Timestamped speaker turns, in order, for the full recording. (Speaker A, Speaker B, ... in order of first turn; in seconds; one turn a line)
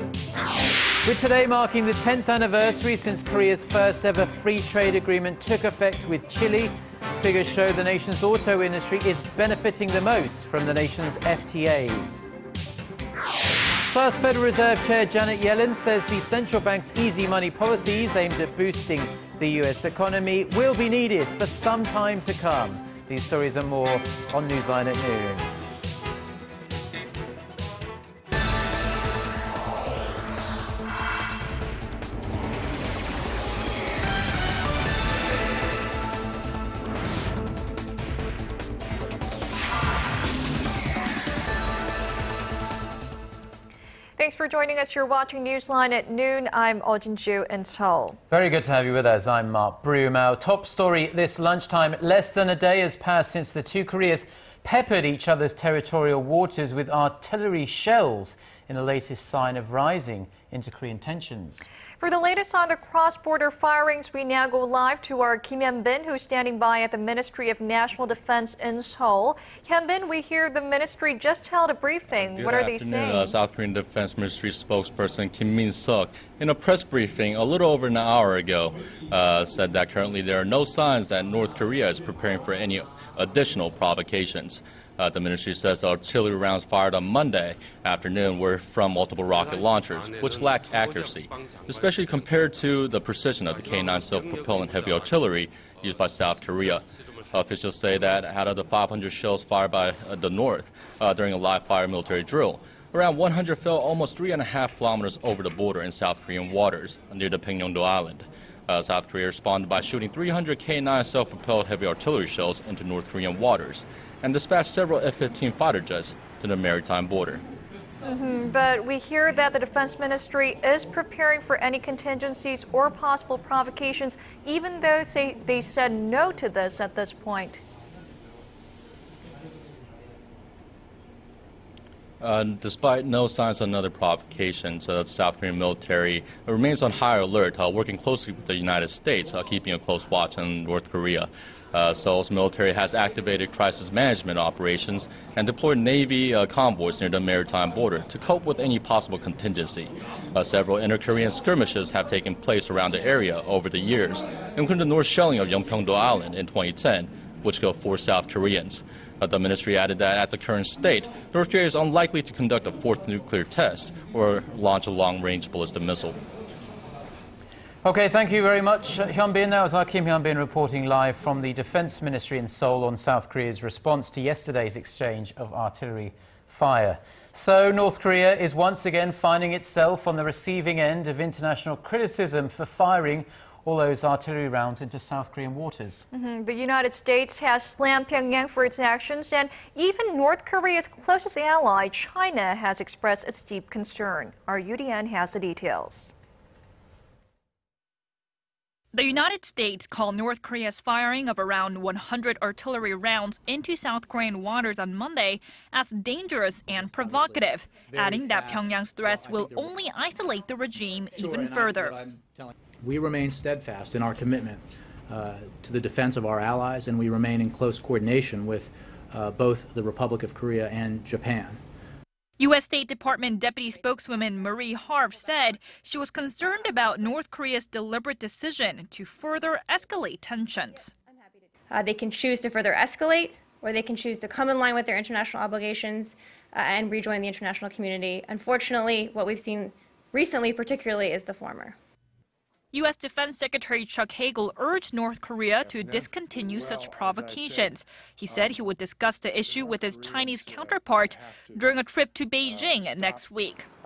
Speaker A: 1.0-12.2
Speaker A: 13.8-25.5
Speaker B: 44.2-48.2
Speaker A: 48.3-61.7
Speaker B: 62.0-73.3
Speaker C: 72.3-117.4
Speaker B: 118.0-127.6
Speaker C: 132.2-166.2
Speaker A: 167.8-186.0
Speaker B: 186.1-196.1
Speaker D: 198.9-211.9
Speaker E: 206.8-209.8
Speaker E: 211.2-221.6
Speaker D: 222.4-230.9
Speaker F: 231.7-241.8
Speaker D: 242.7-253.7